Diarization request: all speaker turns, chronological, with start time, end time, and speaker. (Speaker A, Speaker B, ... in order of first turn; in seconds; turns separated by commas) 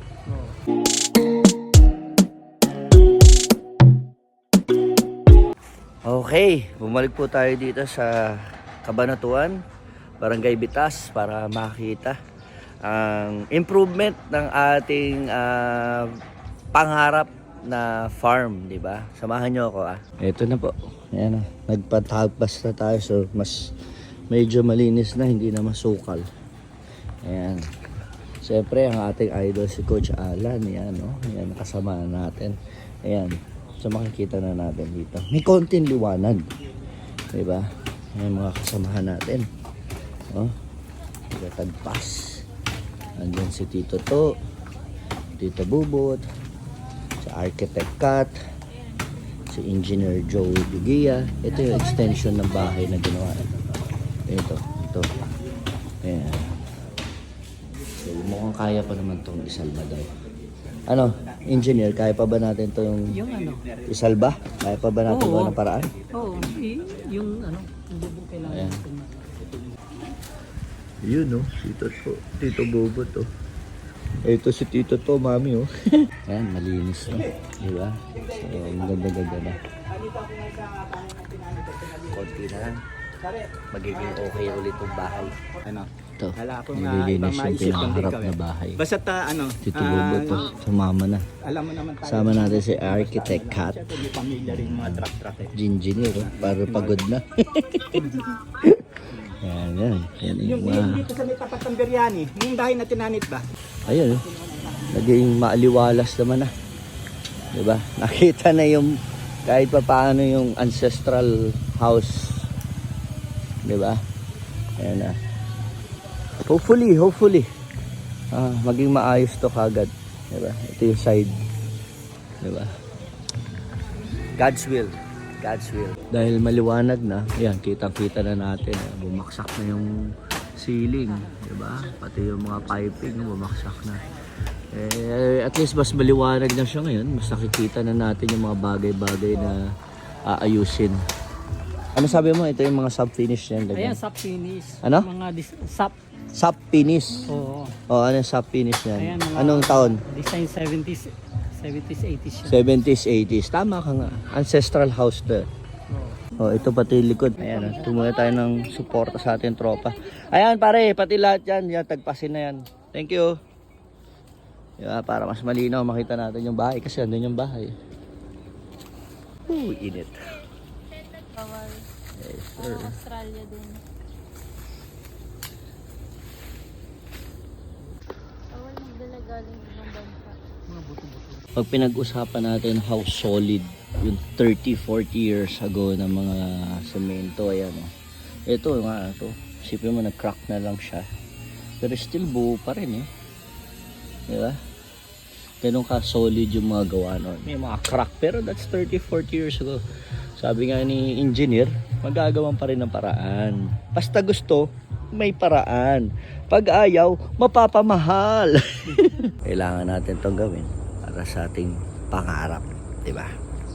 Speaker A: 6.0-9.6, Speaker A: 10.2-12.2, Speaker A: 12.8-16.2, Speaker A: 16.7-23.8, Speaker A: 24.3-26.2, Speaker A: 27.2-27.7, Speaker A: 28.4-36.4, Speaker A: 37.3-39.5, Speaker A: 41.3-42.4, Speaker A: 43.1-44.4, Speaker A: 45.4-46.2, Speaker A: 47.2-48.3, Speaker A: 49.5-53.5, Speaker A: 54.3-55.1, Speaker A: 56.0-56.6, Speaker A: 58.0-60.1, Speaker A: 60.9-63.2, Speaker B: 63.1-63.6, Speaker A: 63.9-66.0, Speaker B: 65.1-65.6, Speaker B: 66.1-69.5, Speaker A: 68.4-68.8, Speaker A: 71.0-73.3, Speaker A: 74.2-79.6, Speaker C: 79.7-82.0, Speaker A: 82.0-82.8, Speaker A: 83.7-85.3, Speaker C: 85.5-88.2, Speaker A: 86.2-88.9, Speaker C: 88.8-90.4, Speaker A: 89.6-91.3, Speaker C: 91.4-95.5, Speaker A: 92.0-101.1, Speaker C: 100.4-103.5, Speaker A: 103.8-104.2, Speaker A: 104.9-106.5, Speaker A: 107.5-112.5, Speaker A: 113.6-114.0, Speaker A: 114.8-115.2, Speaker A: 116.4-117.5, Speaker A: 118.3-121.3, Speaker A: 122.4-122.7, Speaker A: 124.3-129.9, Speaker A: 130.6-134.1, Speaker A: 134.7-139.7, Speaker A: 140.2-141.0, Speaker A: 141.9-144.0, Speaker B: 143.7-145.9, Speaker A: 144.8-145.1, Speaker A: 146.3-147.3, Speaker B: 147.3-147.8, Speaker A: 147.9-150.0, Speaker B: 149.0-152.6, Speaker A: 152.4-155.5, Speaker B: 155.9-156.2, Speaker A: 156.4-163.3, Speaker A: 164.8-167.7, Speaker A: 169.4-170.4, Speaker D: 171.2-171.9, Speaker A: 172.2-173.0, Speaker D: 172.6-173.8, Speaker D: 178.5-180.4, Speaker B: 180.7-181.4, Speaker A: 181.6-187.9, Speaker A: 188.4-191.1, Speaker A: 191.8-193.1, Speaker A: 194.3-194.6, Speaker A: 195.6-199.8, Speaker A: 200.4-213.3